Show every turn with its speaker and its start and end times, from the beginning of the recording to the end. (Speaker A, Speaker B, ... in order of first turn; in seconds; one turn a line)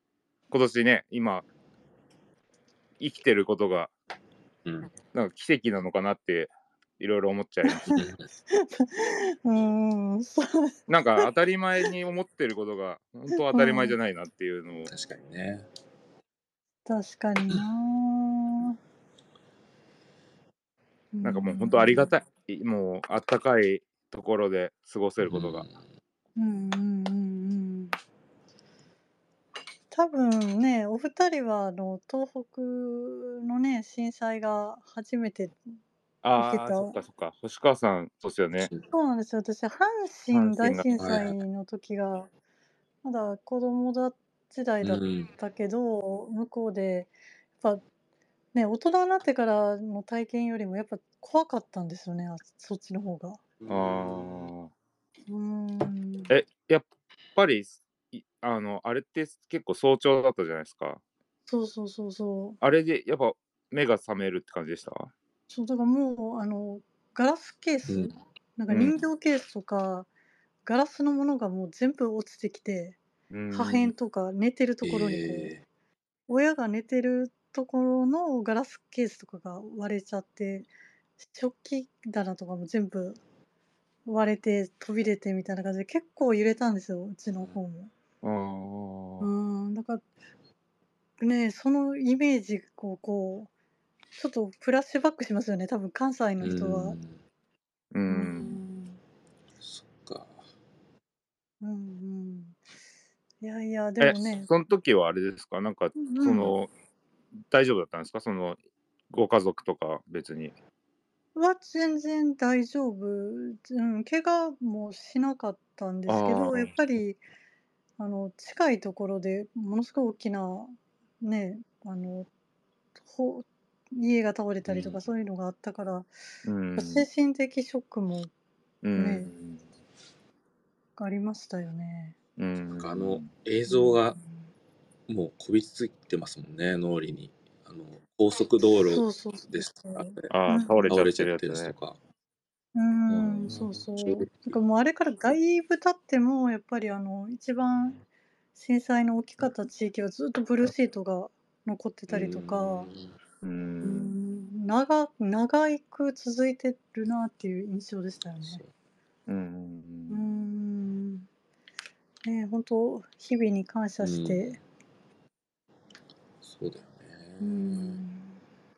Speaker A: 0.5-1.4
Speaker A: 3.0-3.9
Speaker B: 4.6-4.9
Speaker A: 5.1-7.9
Speaker C: 7.7-11.3
Speaker B: 7.9-8.2
Speaker A: 10.9-14.9
Speaker C: 13.3-14.0
Speaker B: 14.9-15.7
Speaker C: 16.9-18.8
Speaker C: 21.1-22.1
Speaker A: 21.2-25.7
Speaker B: 25.2-25.8
Speaker C: 26.4-27.9
Speaker C: 29.9-35.6
Speaker A: 36.2-38.7
Speaker C: 36.4-37.0
Speaker B: 38.6-38.8
Speaker C: 38.9-42.3
Speaker A: 40.3-41.0
Speaker B: 41.0-41.4
Speaker C: 43.0-47.8
Speaker B: 44.8-45.3
Speaker C: 48.5-53.4
Speaker B: 53.6-54.5
Speaker A: 53.7-54.7
Speaker C: 55.3-56.4
Speaker A: 56.3-61.0
Speaker C: 61.5-62.6
Speaker A: 62.6-65.1
Speaker C: 65.5-70.1
Speaker B: 67.9-68.1
Speaker A: 68.7-69.0
Speaker C: 70.6-73.0
Speaker A: 73.3-73.9
Speaker C: 73.5-75.5
Speaker B: 74.8-75.6
Speaker C: 76.3-80.7
Speaker C: 81.2-83.2
Speaker C: 84.0-87.9
Speaker A: 88.2-89.3
Speaker C: 89.2-90.0
Speaker C: 91.2-93.5
Speaker C: 94.2-97.0
Speaker B: 96.4-97.2
Speaker A: 97.9-98.6
Speaker C: 98.0-99.0
Speaker B: 99.6-100.4
Speaker C: 101.6-102.6
Speaker C: 103.4-104.5
Speaker A: 104.0-106.7
Speaker C: 106.0-106.5
Speaker A: 107.5-108.6
Speaker A: 109.1-110.5
Speaker C: 111.3-117.2
Speaker A: 116.1-116.7
Speaker C: 118.0-122.3
Speaker C: 123.0-126.1
Speaker B: 124.7-125.0
Speaker A: 126.4-127.1
Speaker C: 126.7-128.3
Speaker A: 128.8-129.6
Speaker C: 128.9-129.3
Speaker C: 131.0-132.2
Speaker A: 132.4-133.3
Speaker B: 132.7-134.2
Speaker C: 133.7-134.5
Speaker B: 135.1-140.3
Speaker C: 138.6-141.0
Speaker A: 140.3-141.7
Speaker B: 140.9-142.0
Speaker C: 142.7-148.0
Speaker B: 143.1-144.6
Speaker C: 148.5-152.9
Speaker B: 152.1-153.1
Speaker A: 153.4-154.2
Speaker C: 153.8-158.6
Speaker B: 158.4-158.7
Speaker A: 159.3-160.2
Speaker C: 160.1-161.3
Speaker C: 162.2-164.6
Speaker B: 164.0-164.6
Speaker B: 166.4-168.0
Speaker C: 167.4-168.4